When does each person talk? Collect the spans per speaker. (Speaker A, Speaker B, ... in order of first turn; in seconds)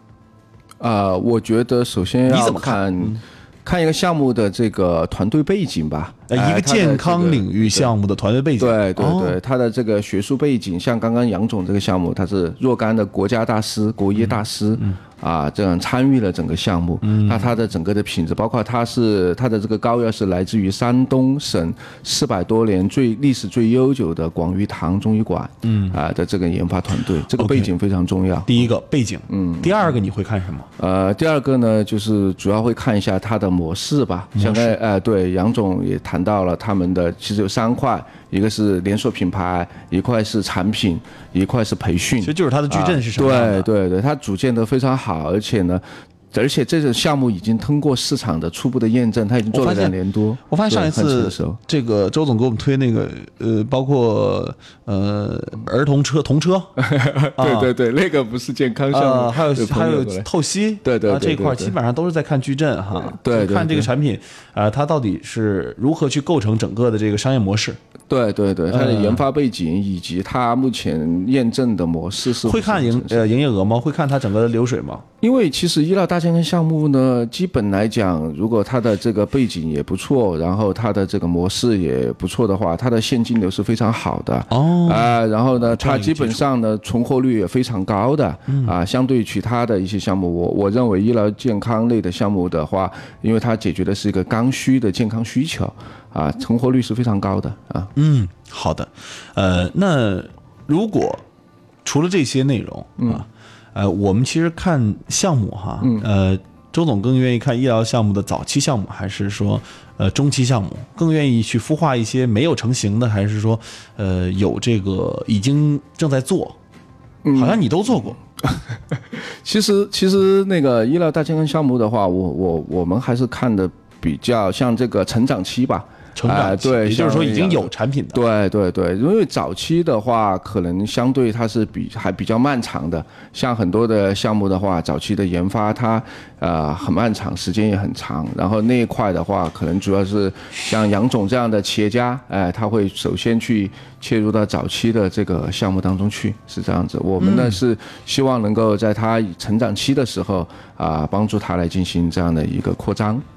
Speaker A: 0.8-7.9, 8.6-28.7, 29.3-29.9, 30.8-51.6, 56.8-60.3, 60.8-61.8, 63.0-63.9, 68.1-73.2, 75.2-97.9, 105.8-106.1, 117.2-153.2
Speaker B: 2.3-3.2, 6.3-9.4, 14.2-15.0, 17.0-17.5, 25.6-26.0, 27.3-27.7, 28.5-30.7, 34.4-34.8, 42.2-43.7, 49.5-49.9, 50.5-56.7, 57.4-57.7, 58.9-67.8, 68.7-69.2, 72.4-75.0, 84.5-86.4, 88.5-88.7, 98.0-101.2, 101.8-116.6, 117.3-118.2, 126.1-128.2, 147.2-147.6